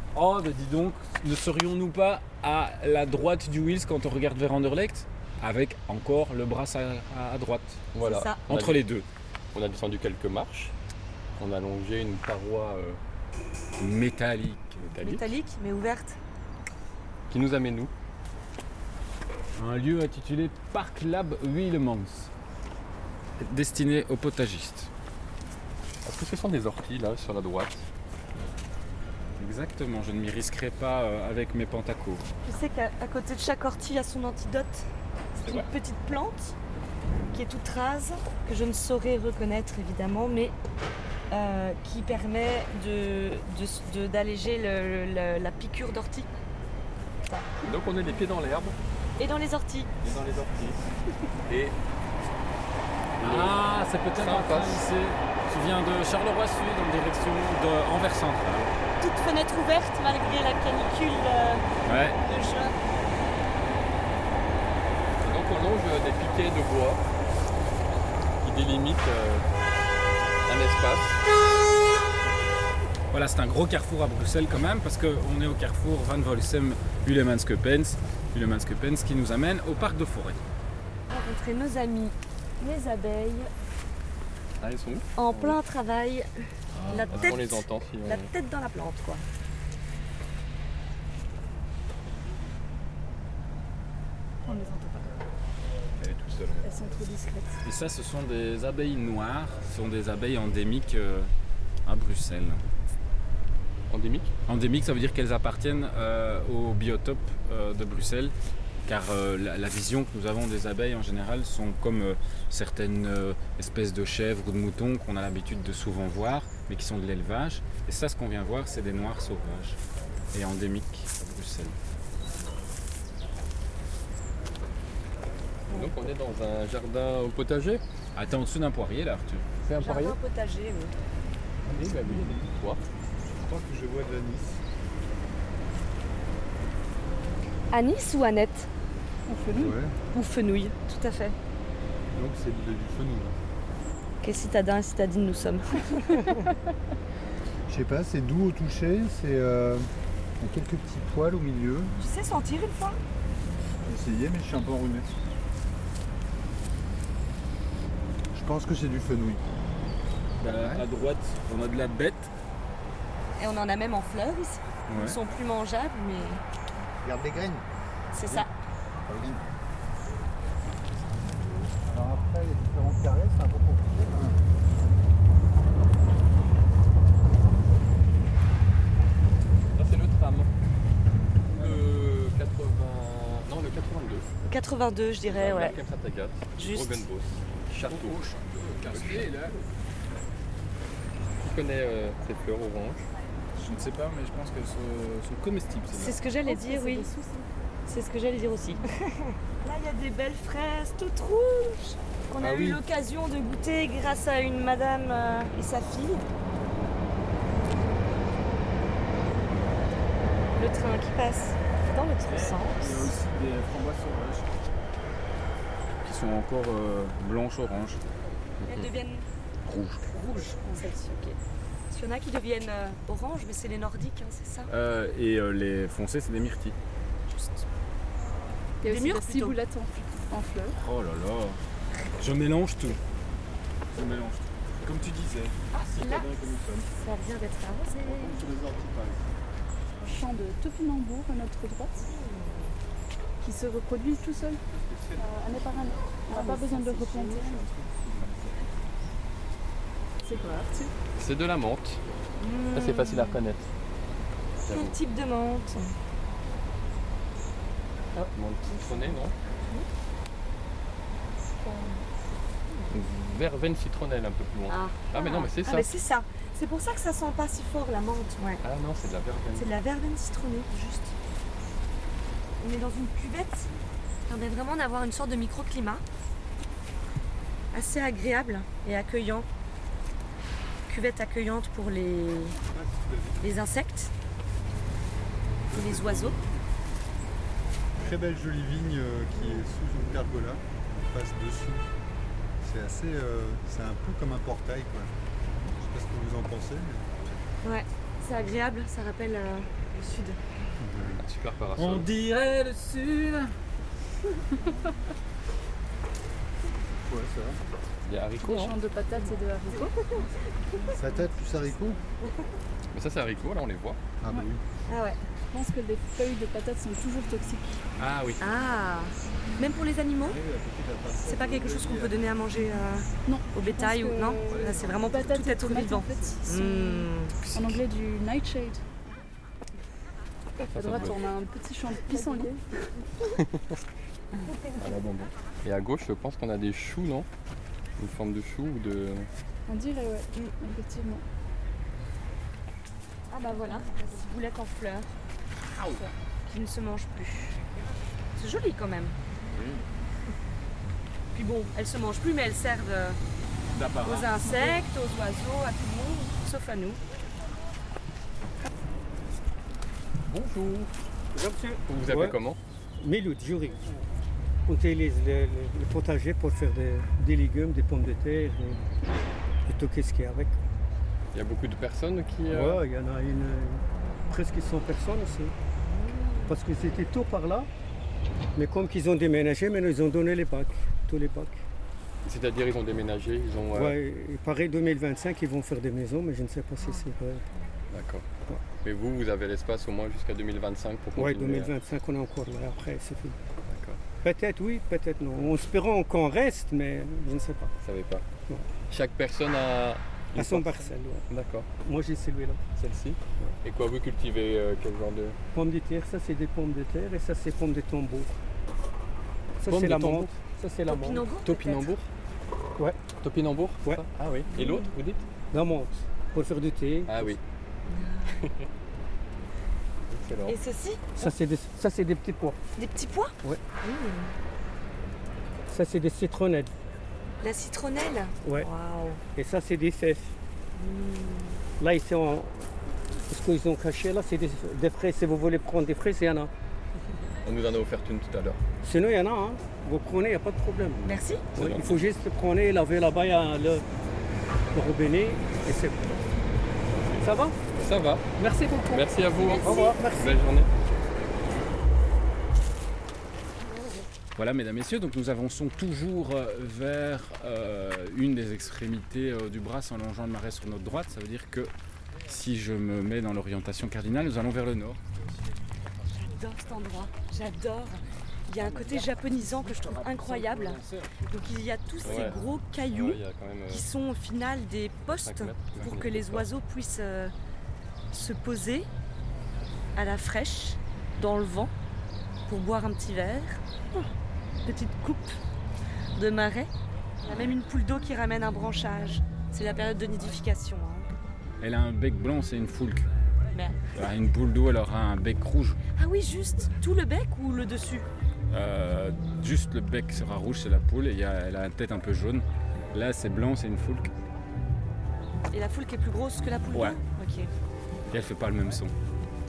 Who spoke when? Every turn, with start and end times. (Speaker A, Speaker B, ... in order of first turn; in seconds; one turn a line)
Speaker A: 0.1-7.8
Speaker B: 7.9-8.8
Speaker C: 8.0-8.4
Speaker A: 8.5-9.1
Speaker B: 9.5-10.7
Speaker B: 11.4-13.0
Speaker A: 13.8-14.9
Speaker B: 14.9-15.3
Speaker C: 15.0-16.2
Speaker B: 17.3-17.9
Speaker A: 19.6-22.3
Speaker A: 23.4-24.9
Speaker B: 26.0-27.9
Speaker A: 29.4-32.2
Speaker C: 32.4-36.5
Speaker B: 35.4-35.7
Speaker C: 37.3-40.5
Speaker C: 41.3-46.3
Speaker C: 47.3-47.7
Speaker B: 47.6-48.8
Speaker C: 49.2-49.9
Speaker B: 50.0-50.9
Speaker B: 51.5-51.8
Speaker B: 53.2-53.6
Speaker A: 53.2-58.7
Speaker B: 54.1-54.9
Speaker C: 59.0-61.6
Speaker A: 61.9-62.2
Speaker C: 62.2-62.8
Speaker B: 65.2-67.0
Speaker B: 68.4-69.4
Speaker B: 70.5-71.2
Speaker A: 73.1-80.4
Speaker C: 81.1-83.5
Speaker B: 84.6-85.6
Speaker C: 85.2-86.3
Speaker A: 86.8-87.3
Speaker C: 86.9-89.2
Speaker B: 87.0-88.3
Speaker D: 94.5-95.2
Speaker B: 96.0-96.7
Speaker D: 96.6-97.6
Speaker A: 97.6-101.3
Speaker A: 101.8-102.6
Speaker B: 103.9-104.3
Speaker A: 104.5-108.3
Speaker A: 108.9-119.8
Speaker A: 120.3-121.8
Speaker B: 125.7-127.8
Speaker A: 128.1-129.4
Speaker B: 129.6-130.2
Speaker C: 129.8-130.9
Speaker B: 131.7-132.8
Speaker E: 133.3-134.6
Speaker C: 137.7-138.7
Speaker D: 139.3-139.8
Speaker E: 139.5-139.9
Speaker C: 140.1-141.3
Speaker E: 142.1-143.4
Speaker C: 144.2-146.5
Speaker E: 147.7-149.9
Speaker E: 150.4-151.9
Speaker C: 152.0-153.0
Speaker E: 153.8-155.2
Speaker E: 158.3-159.4
Speaker A: 160.4-162.3
Speaker E: 160.5-160.8
Speaker C: 163.4-166.4
Speaker A: 164.9-165.2
Speaker E: 167.0-167.6
Speaker C: 168.1-168.5
Speaker E: 169.1-169.4
Speaker E: 171.8-174.4
Speaker B: 179.8-180.5
Speaker B: 181.5-184.2
Speaker C: 184.4-185.8
Speaker B: 185.2-188.2
Speaker C: 186.6-187.0
Speaker A: 187.8-189.6
Speaker B: 188.9-189.3
Speaker B: 191.4-193.0
Speaker A: 193.5-196.2
Speaker C: 195.9-197.1
Speaker D: 196.3-197.5
Speaker C: 197.9-206.3
Speaker B: 202.4-202.8
Speaker C: 210.6-213.0
Speaker A: 212.3-214.5
Speaker A: 216.0-218.0
Speaker B: 218.6-218.9
Speaker C: 218.7-219.3
Speaker A: 219.6-220.1
Speaker C: 220.1-221.4
Speaker D: 220.6-220.9
Speaker C: 221.9-224.7
Speaker A: 224.7-226.8
Speaker D: 228.8-230.8
Speaker C: 228.8-229.6
Speaker A: 230.7-231.6
Speaker A: 232.2-233.0
Speaker A: 233.9-236.9
Speaker C: 235.7-236.3
Speaker C: 236.9-238.5
Speaker E: 238.0-239.3
Speaker D: 240.0-242.0
Speaker C: 241.9-242.8
Speaker D: 243.4-244.6
Speaker E: 244.7-245.9
Speaker D: 245.2-247.6
Speaker C: 246.3-247.4
Speaker E: 247.4-248.7
Speaker D: 250.2-250.9
Speaker B: 251.1-252.0
Speaker C: 252.4-253.4
Speaker B: 252.7-253.7
Speaker B: 254.7-255.0
Speaker C: 254.7-255.9
Speaker B: 258.3-259.3
Speaker D: 261.6-262.0
Speaker B: 262.9-265.9
Speaker C: 264.7-268.6
Speaker B: 268.6-269.7
Speaker C: 269.5-271.1
Speaker C: 272.6-273.7
Speaker C: 274.3-276.0
Speaker C: 277.7-279.5
Speaker C: 280.9-282.6
Speaker E: 282.7-283.5
Speaker C: 283.4-284.1
Speaker E: 285.6-286.8
Speaker C: 285.7-286.4
Speaker E: 288.0-291.9
Speaker E: 292.6-295.1
Speaker E: 295.8-297.4
Speaker C: 297.6-300.4
Speaker E: 300.8-301.2
Speaker B: 301.1-302.1
Speaker A: 301.7-303.5
Speaker E: 304.6-304.9
Speaker E: 307.0-307.6
Speaker B: 308.0-308.8
Speaker D: 308.4-310.3
Speaker C: 309.2-310.3
Speaker E: 310.9-312.0
Speaker B: 312.9-314.0
Speaker E: 314.2-314.6
Speaker C: 314.9-315.2
Speaker D: 315.5-317.8
Speaker A: 318.0-318.4
Speaker C: 318.4-320.4
Speaker E: 320.2-322.2
Speaker C: 321.2-327.4
Speaker D: 323.2-328.8
Speaker E: 324.5-325.1
Speaker B: 327.4-327.8
Speaker B: 330.6-331.2
Speaker D: 330.7-332.6
Speaker B: 333.3-333.8
Speaker C: 334.4-334.8
Speaker B: 334.8-337.3
Speaker B: 338.0-339.3
Speaker D: 339.7-341.2
Speaker C: 343.3-345.1
Speaker C: 346.4-347.6
Speaker C: 348.3-349.1
Speaker A: 349.5-349.8
Speaker C: 351.3-353.2
Speaker A: 353.7-354.6
Speaker C: 354.0-357.0
Speaker B: 360.3-360.9
Speaker F: 361.3-362.4
Speaker B: 361.9-362.6
Speaker F: 363.0-364.0
Speaker F: 364.6-368.8
Speaker F: 369.6-370.6
Speaker B: 371.3-372.8
Speaker F: 372.5-375.5
Speaker C: 375.9-376.5
Speaker F: 376.4-377.7
Speaker F: 378.6-381.6
Speaker B: 382.2-384.0
Speaker F: 383.7-387.4
Speaker C: 386.8-387.8
Speaker B: 387.9-388.2
Speaker B: 388.8-391.7
Speaker F: 391.1-393.4
Speaker B: 393.7-394.0
Speaker F: 394.2-397.7
Speaker B: 397.8-398.2
Speaker B: 398.9-401.7
Speaker F: 400.3-401.3
Speaker F: 401.8-402.6
Speaker B: 402.7-405.4
Speaker F: 405.5-408.3
Speaker F: 409.6-411.3
Speaker B: 409.6-410.4
Speaker C: 410.9-411.9
Speaker B: 411.4-412.1
Speaker F: 412.8-413.0
Speaker B: 413.2-415.2
Speaker C: 414.5-414.9
Speaker F: 415.5-417.4
Speaker B: 417.1-417.4
Speaker C: 417.9-418.5
Speaker B: 420.1-420.6
Speaker C: 420.4-421.3
Speaker F: 421.2-422.6
Speaker C: 422.7-424.3
Speaker F: 425.7-426.7
Speaker C: 427.4-429.2
Speaker F: 429.3-430.3
Speaker C: 430.8-431.6
Speaker F: 431.8-432.6
Speaker F: 433.3-436.5
Speaker B: 437.4-438.6
Speaker F: 438.8-443.8
Speaker C: 441.0-441.4
Speaker B: 441.5-442.1
Speaker F: 444.7-446.1
Speaker B: 446.9-447.2
Speaker F: 447.2-447.6
Speaker B: 447.7-448.3
Speaker F: 448.4-450.4
Speaker B: 448.9-450.7
Speaker C: 449.4-450.0
Speaker A: 454.4-461.7
Speaker A: 462.3-465.0
Speaker C: 466.1-477.3
Speaker A: 468.6-471.3
Speaker B: 472.0-473.9
Speaker A: 472.0-472.4
Speaker B: 475.1-476.5
Speaker C: 478.1-478.9
Speaker C: 479.9-481.7
Speaker C: 482.5-484.1
Speaker C: 484.6-485.4
Speaker C: 486.1-486.7
Speaker C: 487.2-491.1
Speaker A: 491.6-493.1
Speaker C: 493.5-493.8
Speaker A: 493.9-495.8
Speaker C: 495.9-498.1
Speaker A: 498.5-504.1
Speaker C: 505.5-507.5
Speaker A: 506.7-507.0
Speaker A: 508.1-508.9